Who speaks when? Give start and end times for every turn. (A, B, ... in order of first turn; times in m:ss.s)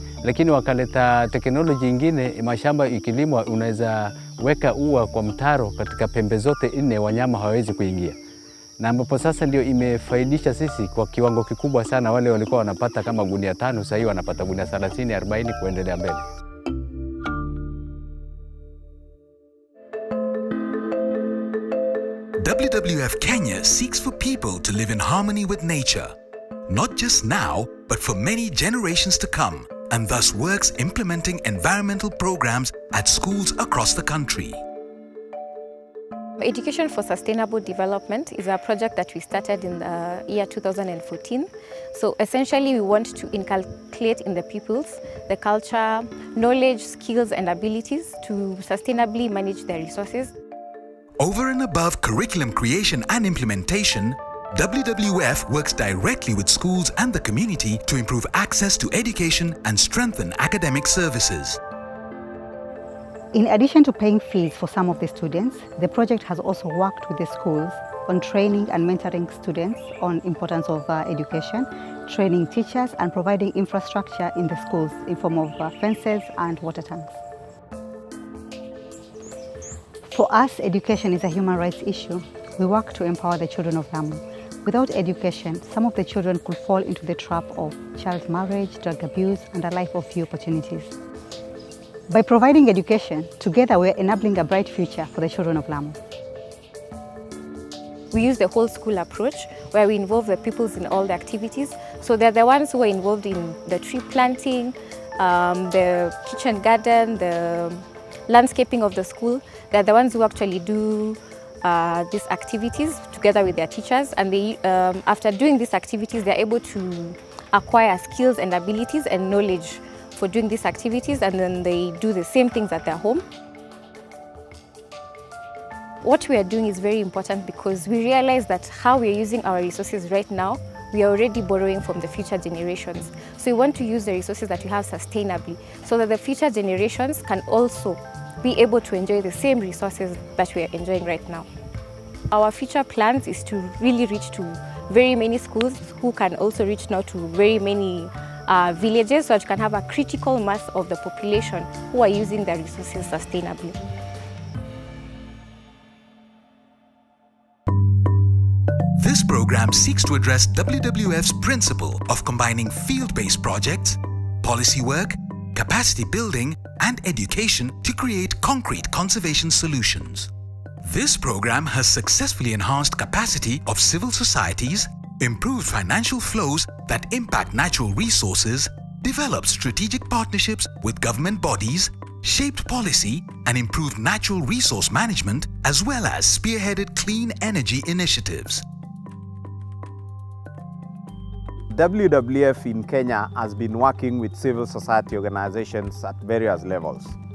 0:00.2-0:08.2 A
0:08.8-0:16.2 A
0:22.4-0:26.1 B
0:26.7-0:34.6 B
0:36.4-0:50.3 C
0:51.2-1:01.6 B
1:03.3-1:17.2 D
1:20.1-1:30.9 D
1:32.1-1:36.0 D
1:38.1-2:03.2 C
2:06.0-2:21.5 C
2:22.3-2:33.8 C
2:39.0-2:50.3 B
2:50.8-3:08.6 B
3:11.7-3:17.2 E